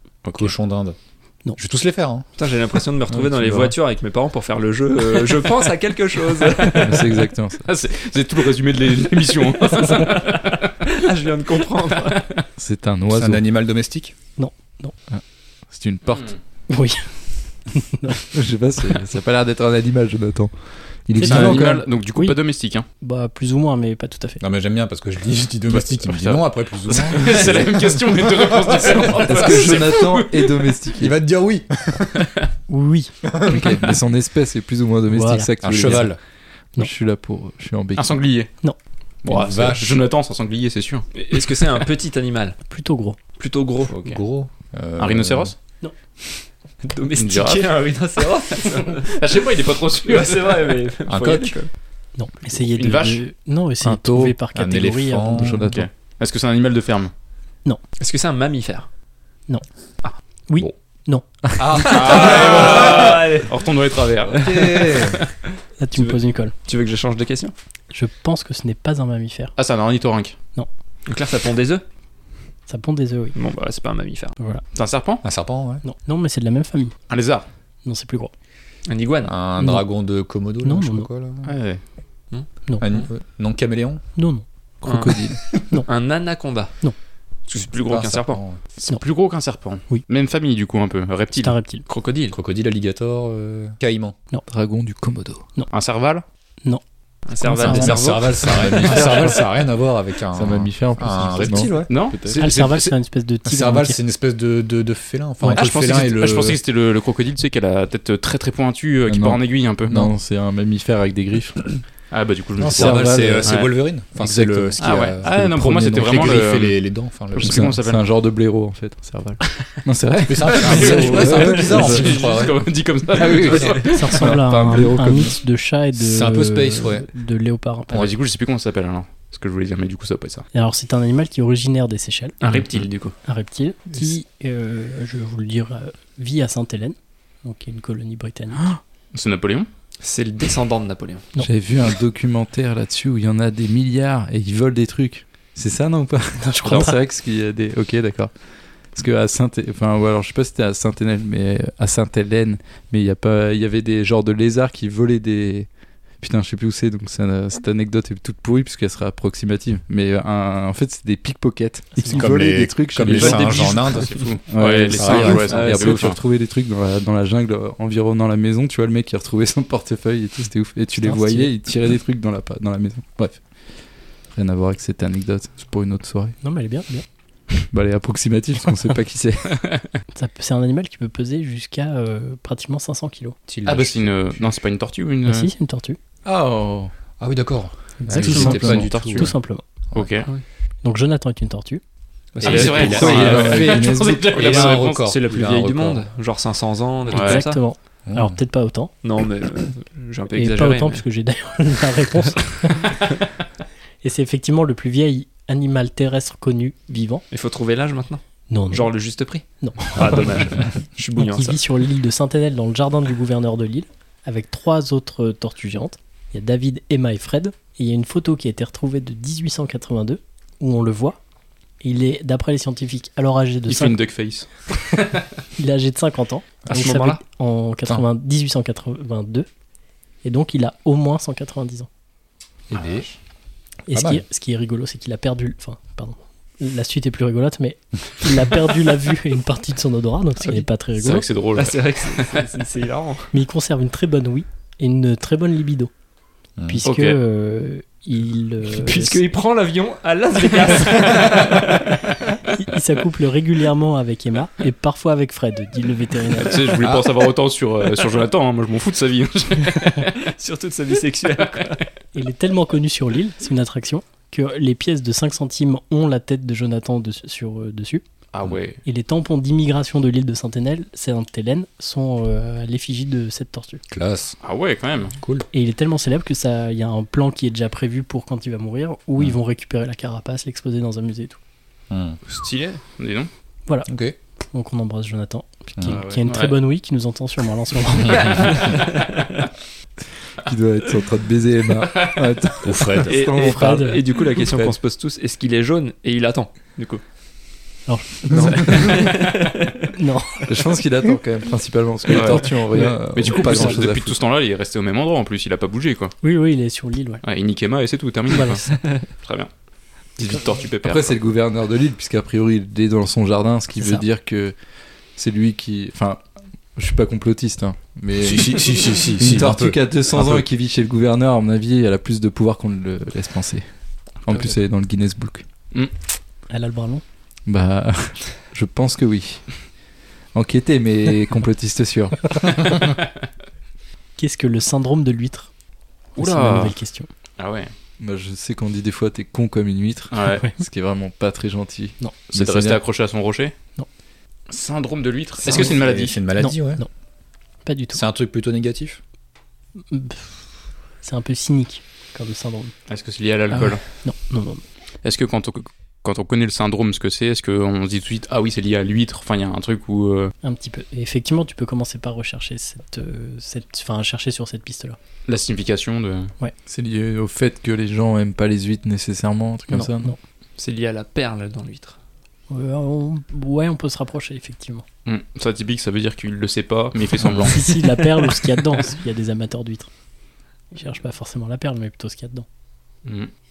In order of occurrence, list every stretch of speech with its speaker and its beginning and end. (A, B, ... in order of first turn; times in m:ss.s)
0:00.2-0:00.5 A
0:00.4-0:01.0 B
0:01.6-0:02.3 B
0:02.4-0:07.2 C
0:03.1-0:03.8 D
0:06.8-0:07.7 D
0:07.7-0:10.8 A
0:09.7-0:12.2 C
0:12.0-0:12.4 A
0:12.6-0:13.4 D
0:13.1-0:14.1 B
0:14.4-0:14.9 E
0:15.1-0:16.3 D
0:16.7-0:17.1 E
0:17.7-0:18.3 E
0:18.3-0:22.4 D
0:21.2-0:22.8 A
0:21.2-0:21.6 B
0:23.0-0:24.4 E
0:24.4-0:29.9 B
0:25.7-0:30.5 A
0:29.3-0:31.2 D
0:31.0-0:32.3 B
0:32.7-0:33.1 E
0:33.3-0:34.0 B
0:33.5-0:36.2 D
0:35.1-0:35.5 E
0:35.6-0:36.2 B
0:36.8-0:38.2 D
0:38.0-0:38.5 A
0:39.2-0:41.1 A
0:39.2-0:40.0 B
0:41.1-0:42.6 C
0:42.7-0:43.2 E
0:43.4-0:44.0 C
0:43.9-0:45.5 B
0:45.0-0:45.5 A
0:46.8-0:49.2 C
0:47.2-0:48.0 A
0:48.9-0:50.7 A
0:50.0-0:51.7 C
0:51.1-0:51.6 B
0:52.2-0:55.8 E
0:52.6-0:53.2 A
0:53.8-0:54.4 D
0:54.6-0:55.6 B
0:55.4-0:55.9 D
0:55.6-0:57.1 A
0:58.0-0:58.9 C
1:00.5-1:01.2 E
1:01.6-1:03.2 B
1:01.8-1:03.6 C
1:01.9-1:04.4 A
1:04.3-1:05.2 B
1:04.3-1:07.5 C
1:05.8-1:06.5 E
1:07.9-1:09.5 E
1:09.6-1:10.4 A
1:11.1-1:11.8 C
1:12.7-1:13.4 E
1:13.4-1:14.4 C
1:14.8-1:15.2 A
1:15.2-1:15.8 B
1:15.8-1:17.0 E
1:17.1-1:17.4 A
1:17.8-1:18.3 E
1:18.8-1:19.3 C
1:19.2-1:21.5 B
1:19.6-1:19.8 E
1:20.6-1:21.1 E
1:21.4-1:21.8 A
1:22.3-1:23.0 C
1:22.8-1:24.0 B
1:24.2-1:24.4 E
1:24.8-1:25.4 D
1:24.8-1:26.8 C
1:27.5-1:28.4 C
1:27.9-1:28.6 B
1:28.8-1:31.6 A
1:31.4-1:31.8 E
1:31.9-1:32.4 C
1:32.3-1:34.2 B
1:34.5-1:35.5 D
1:35.7-1:36.2 A
1:37.3-1:39.0 C
1:37.4-1:38.0 E
1:37.6-1:46.6 B
1:38.5-1:39.5 D
1:40.3-1:42.4 D
1:41.6-1:42.4 A
1:42.3-1:44.0 E
1:45.6-1:50.1 A
1:49.1-1:52.1 D
1:52.1-1:53.7 A
1:52.6-1:57.7 B
1:52.6-1:54.9 D
1:54.8-1:58.0 A
1:57.4-2:02.2 D
1:59.5-1:59.8 A
2:00.3-2:02.6 B
2:00.6-2:04.1 A
2:03.2-2:03.8 B
2:03.2-2:05.4 D
2:03.9-2:08.1 E
2:06.0-2:07.1 B
2:07.9-2:10.4 A
2:10.5-2:12.4 E
2:12.4-2:13.2 C
2:12.6-2:12.9 A
2:13.2-2:18.7 E
2:19.1-2:19.7 A
2:20.0-2:21.3 C
2:21.4-2:28.4 D
2:26.4-2:27.0 E
2:28.9-2:35.7 D
2:36.2-2:43.8 D
2:41.9-2:42.3 E
2:42.1-2:44.3 B
2:43.0-2:44.0 C
2:43.3-2:46.2 A
2:44.5-2:53.5 D
2:44.9-2:45.8 B
2:45.4-2:46.1 C
2:51.0-2:51.5 E
2:54.3-2:56.4 D
2:56.4-2:57.0 E
2:57.7-2:59.7 D
3:00.2-3:03.4 E
3:03.5-3:04.5 B
3:03.6-3:05.5 A
3:05.2-3:06.0 E
3:06.2-3:06.9 D
3:07.2-3:09.3 B
3:08.0-3:09.6 E
3:08.2-3:08.9 D
3:08.3-3:09.3 A
3:09.9-3:10.3 A
3:10.8-3:11.8 E
3:12.4-3:13.2 C
3:12.4-3:16.1 B
3:12.4-3:14.3 D
3:12.5-3:15.0 A
3:14.4-3:17.6 C
3:17.1-3:17.4 A
3:17.1-3:18.9 E
3:18.1-3:18.4 B
3:19.0-3:21.0 C
3:20.3-3:23.1 E
3:24.0-3:27.2 E
3:27.3-3:31.6 C
3:28.5-3:28.9 E
3:29.6-3:30.6 E
3:31.2-3:41.2 E
3:41.8-3:44.0 E
3:43.7-3:45.2 A
3:45.6-3:49.5 E
3:46.7-3:47.2 C
3:50.2-3:51.9 E
3:52.7-3:53.1 B
3:52.8-3:53.0 A
3:53.9-4:01.3 E
3:53.9-3:54.2 B
4:00.6-4:02.3 A
4:01.6-4:03.3 C
4:03.3-4:05.9 E
4:06.6-4:06.8 B
4:06.7-4:09.2 E
4:06.8-4:07.2 A
4:08.7-4:12.0 C
4:10.6-4:11.2 E
4:12.5-4:16.8 E
4:16.4-4:20.2 A
4:16.8-4:17.2 B
4:20.2-4:21.9 C
4:22.1-4:28.0 E
4:28.3-4:28.8 A
4:28.8-4:33.8 E
4:33.9-4:34.4 B
4:34.4-4:35.2 A
4:35.2-4:35.5 B
4:35.5-4:41.4 E
4:41.9-4:42.2 B
4:42.3-4:42.8 C
4:43.0-4:43.3 A
4:43.9-4:44.2 B
4:44.5-4:48.5 E
4:45.8-4:46.0 B
4:45.9-4:46.3 D
4:46.3-4:46.6 A
4:48.1-4:48.3 B
4:48.1-4:49.4 C
4:50.4-4:53.8 D
4:52.6-4:53.2 B
4:53.1-4:57.0 C
4:53.2-4:54.0 E
4:57.9-4:58.9 E
4:58.3-4:58.6 B
4:58.3-4:59.7 C
4:59.9-5:00.4 E
5:00.5-5:04.2 D
5:02.1-5:02.5 A
5:03.1-5:06.1 A
5:06.2-5:07.2 E
5:07.2-5:09.5 A
5:08.3-5:08.6 E
5:08.7-5:09.1 C
5:10.2-5:11.3 A
5:10.8-5:14.6 D
5:13.8-5:14.0 E
5:15.2-5:16.2 D
5:16.8-5:23.7 D
5:18.2-5:20.5 B
5:24.2-5:25.4 D
5:26.5-5:27.0 E
5:27.5-5:29.5 D
5:30.3-5:32.5 D
5:34.2-5:35.5 E
5:36.2-5:37.1 E
5:36.2-5:36.8 A
5:37.4-5:37.7 A
5:38.0-5:42.8 D
5:40.1-5:40.4 A
5:40.3-5:40.6 E
5:42.3-5:43.6 A
5:44.5-5:46.2 A
5:45.4-5:46.8 B
5:46.4-5:46.9 E
5:47.6-5:48.0 E
5:47.9-5:49.0 B
5:49.9-5:50.5 E
5:51.0-5:52.7 E
5:52.9-5:53.8 A
5:53.5-5:54.6 E
5:55.0-6:00.3 A
6:00.4-6:05.0 E
6:05.3-6:06.3 A
6:06.7-6:10.2 D
6:09.7-6:10.2 E
6:10.6-6:12.0 C
6:12.5-6:14.8 E
6:15.1-6:17.6 A
6:17.2-6:17.5 B
6:17.4-6:19.9 E
6:20.7-6:22.4 E
6:23.0-6:23.3 A